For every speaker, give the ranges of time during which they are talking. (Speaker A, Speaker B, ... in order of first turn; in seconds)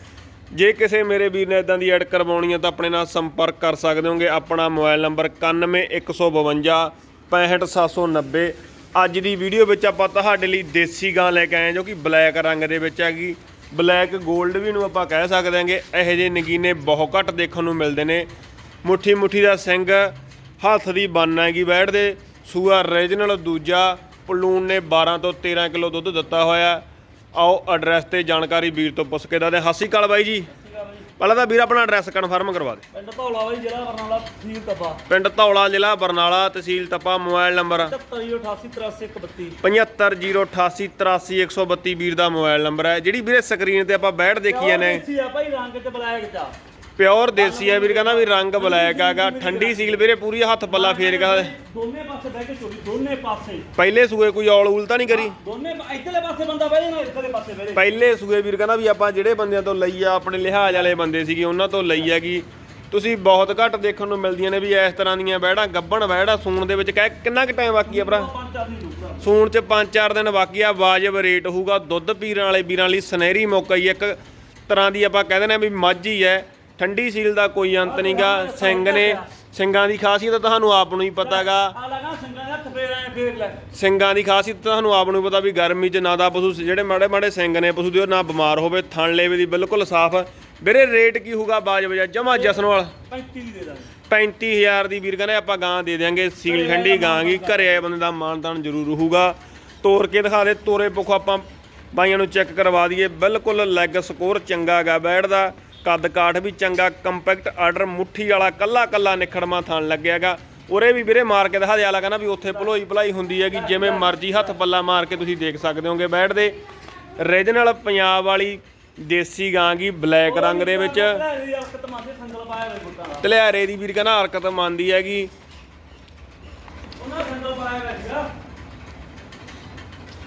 Speaker A: 0.5-18.3, 18.8-30.5, 31.2-32.8, 35.1-37.9, 39.6-45.0, 47.0-51.5, 53.8-55.4, 57.7-68.3, 69.2-81.8, 83.7-92.9, 94.1-116.5, 117.2-121.2, 123.2-125.3
Speaker B: 30.5-31.1, 32.9-35.0, 37.8-39.6, 44.5-46.5, 47.3-50.0, 50.7-53.7, 55.1-57.8, 67.8-69.2, 77.8-79.3, 81.2-83.7, 92.3-93.9, 96.5-97.8, 113.5-114.5, 120.2-123.3, 127.0-128.3